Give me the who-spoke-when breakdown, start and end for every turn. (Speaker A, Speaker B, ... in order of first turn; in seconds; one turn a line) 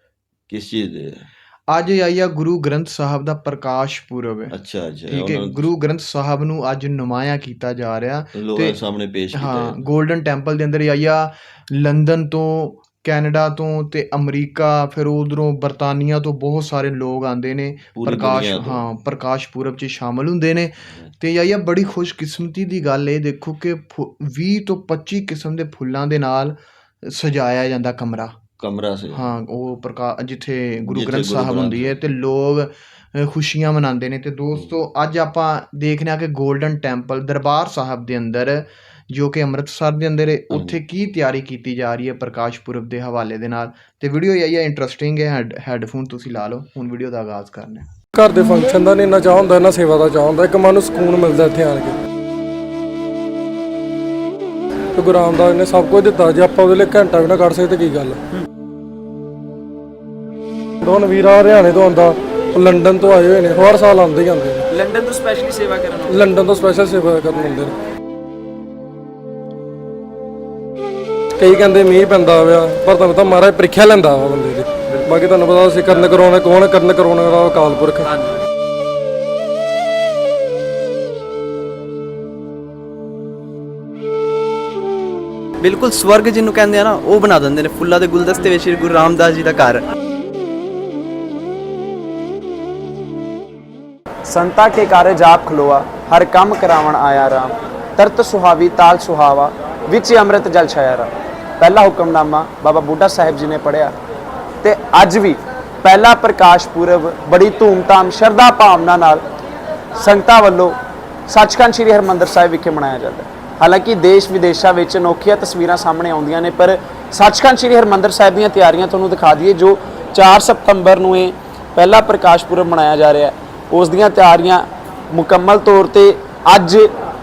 Speaker A: 0.5-1.2
Speaker B: 1.7-4.5
Speaker A: 4.5-5.7
Speaker B: 5.1-8.8
Speaker A: 8.3-9.8
Speaker B: 9.3-28.4
Speaker A: 17.9-18.8
Speaker A: 28.6-29.3
Speaker B: 29.1-47.9
Speaker A: 30.9-32.0
Speaker A: 40.5-40.8
Speaker C: 48.1-51.9
Speaker C: 54.9-58.2
Speaker C: 60.8-64.6
Speaker D: 64.7-66.3
Speaker C: 66.1-67.7
Speaker C: 71.4-78.1
Speaker E: 85.6-89.8
Speaker D: 94.2-103.9
Speaker D: 104.6-109.2
Speaker D: 109.9-110.8
Speaker D: 111.3-126.9